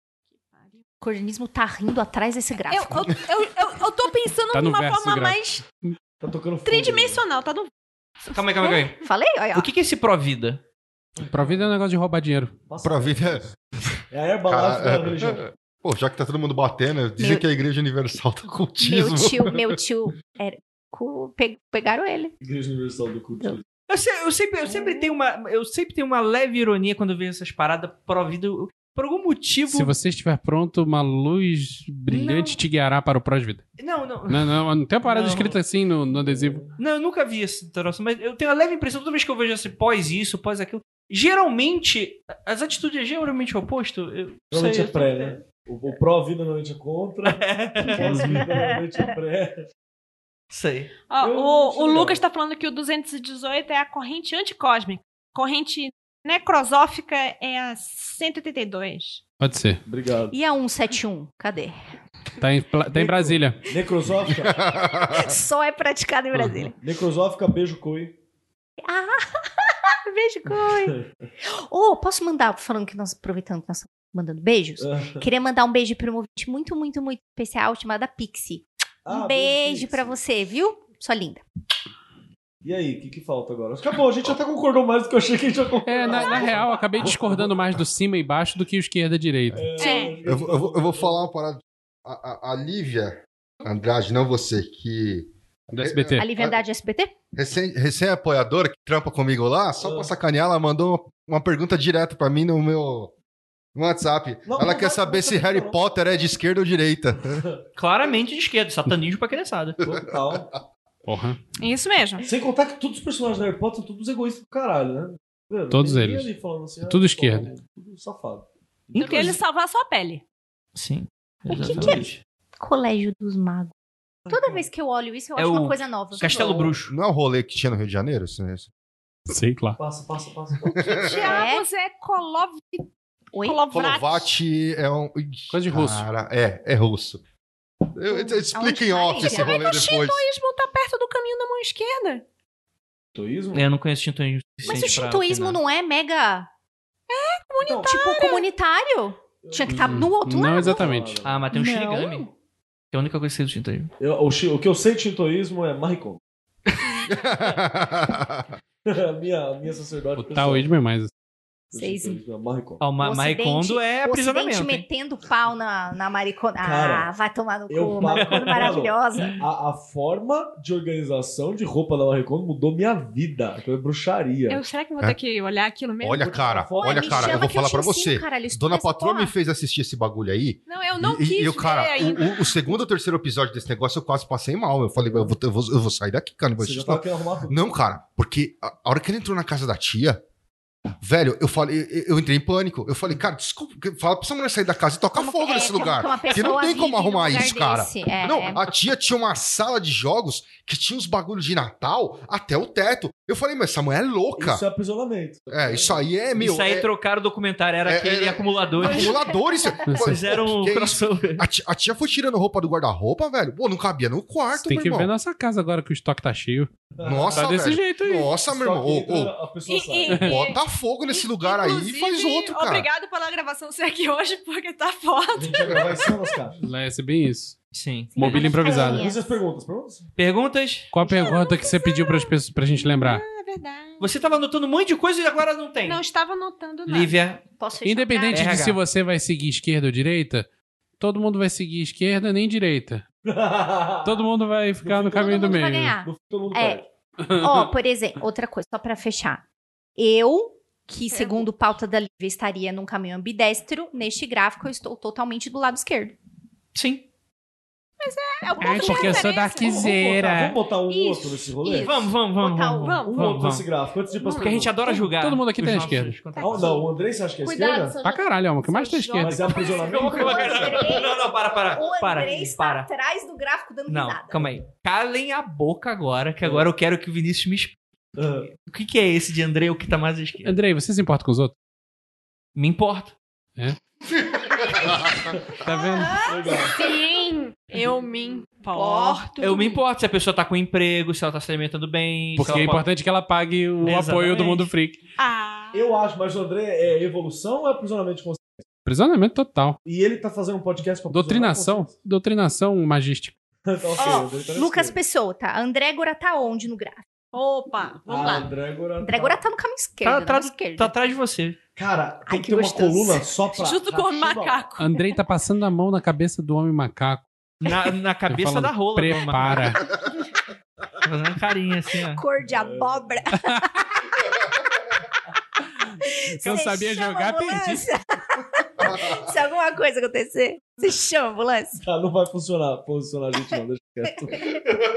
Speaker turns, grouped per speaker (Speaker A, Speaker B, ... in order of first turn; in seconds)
Speaker A: 0.3-0.8, 2.7-5.7, 6.7-7.7, 51.1-59.2, 89.8-90.2, 111.6-112.3, 119.0-120.2, 130.8-134.3, 139.1-142.2, 147.1-148.4, 174.5-176.4, 180.7-182.6, 219.7-226.1, 231.0-234.1, 235.8-237.2, 251.1-251.5, 258.0-260.1, 260.9-262.1, 262.8-263.4, 264.2-264.7, 266.3-266.9, 267.4-270.9, 286.4-289.8, 295.2-296.0, 307.3-308.5, 313.5-315.1
Speaker B: 1.0-3.2, 8.6-9.7, 17.2-17.4, 18.8-22.3, 24.6-25.1, 32.1-32.5, 60.3-61.7, 64.8-66.7, 68.8-81.4, 89.8-90.1, 96.2-97.1, 121.5-122.1, 122.6-123.7, 124.3-126.2, 131.2-131.6, 133.3-133.6, 138.1-139.6, 144.6-146.5, 147.8-150.9, 151.5-152.3, 161.7-162.2, 163.0-169.4, 176.8-179.3, 195.1-198.6, 228.2-229.2, 237.6-238.6, 245.2-249.4, 250.0-256.1, 258.7-259.2, 262.4-263.0, 269.6-274.4, 286.0-286.8, 288.7-289.2, 304.0-307.1, 309.0-310.9, 312.2-313.2, 322.1-324.1, 326.0-331.8
Speaker C: 4.5-5.9, 11.2-12.6, 29.7-33.6, 34.3-36.6, 59.4-59.8, 62.4-63.7, 66.3-66.7, 85.8-89.7, 95.7-96.2, 111.1-111.4, 115.7-116.3, 116.8-117.5, 129.3-129.8, 135.5-136.1, 149.7-151.2, 160.2-161.1, 209.9-210.2, 214.6-216.7, 217.3-218.3, 226.6-227.6, 228.1-229.1, 230.9-233.2, 237.8-240.5, 241.0-243.0, 244.0-245.9, 247.2-247.7, 258.6-260.6, 264.8-266.2, 268.0-269.5, 280.4-281.5, 285.6-286.3, 292.4-295.0, 298.9-299.8, 301.1-303.4, 314.8-317.3, 318.3-319.9, 323.4-323.6, 326.3-327.9
Speaker D: 6.2-7.2, 11.2-11.7, 12.7-13.5, 14.1-15.4, 22.4-23.6, 36.1-36.7, 44.5-49.6, 51.2-52.2, 59.9-60.4, 62.9-64.6, 66.7-68.2, 70.8-71.1, 74.8-75.2, 79.0-80.2, 82.6-87.7, 89.5-91.2, 99.8-100.1, 104.5-105.8, 109.8-110.6, 112.2-119.4, 121.7-122.1, 124.3-124.7, 126.2-126.7, 129.8-131.1, 143.1-143.7, 147.6-147.9, 149.4-151.4, 154.0-156.2, 158.8-160.7, 161.7-162.8, 166.6-167.1, 167.7-174.6, 176.2-177.4, 185.0-185.3, 186.6-187.7, 204.4-206.1, 216.9-217.6, 218.4-220.3, 225.4-226.6, 228.6-230.1, 243.2-244.3, 244.8-246.9, 259.6-261.9, 263.1-264.7, 266.4-267.9, 269.2-270.9, 276.4-276.7, 278.1-278.5, 285.1-285.5, 286.2-286.8, 295.7-298.7, 299.8-301.9, 303.6-305.0, 308.1-309.4, 311.8-314.7, 322.4-323.1, 331.8-334.6
Speaker E: 8.3-9.0, 9.5-10.6, 23.9-29.9, 33.8-35.6, 36.8-45.4, 47.2-48.5, 50.5-50.9, 107.8-109.8, 119.0-119.3, 120.7-122.2, 125.4-126.9, 143.5-145.6, 151.2-152.3, 152.9-153.9, 162.8-164.8, 168.2-168.7, 206.4-209.2, 209.9-211.4, 227.7-228.2, 230.2-230.9, 234.0-236.0, 236.9-237.4, 238.3-238.8, 256.7-257.1, 261.8-263.7, 264.2-266.7, 269.8-272.9, 273.9-277.8, 278.6-280.5, 282.6-283.1, 289.4-292.9, 293.8-294.7, 310.0-311.6, 317.6-319.9, 321.0-322.2
Speaker F: 12.8-13.5, 14.5-19.8, 64.3-65.3, 90.2-96.6, 97.3-103.1, 103.7-107.4, 109.9-110.4, 126.8-128.7, 130.7-131.2, 133.7-137.2, 137.9-140.2, 157.1-158.6, 176.0-190.2, 191.0-204.6, 205.5-206.9, 207.8-215.1, 217.0-219.3, 220.2-222.9, 284.8-285.2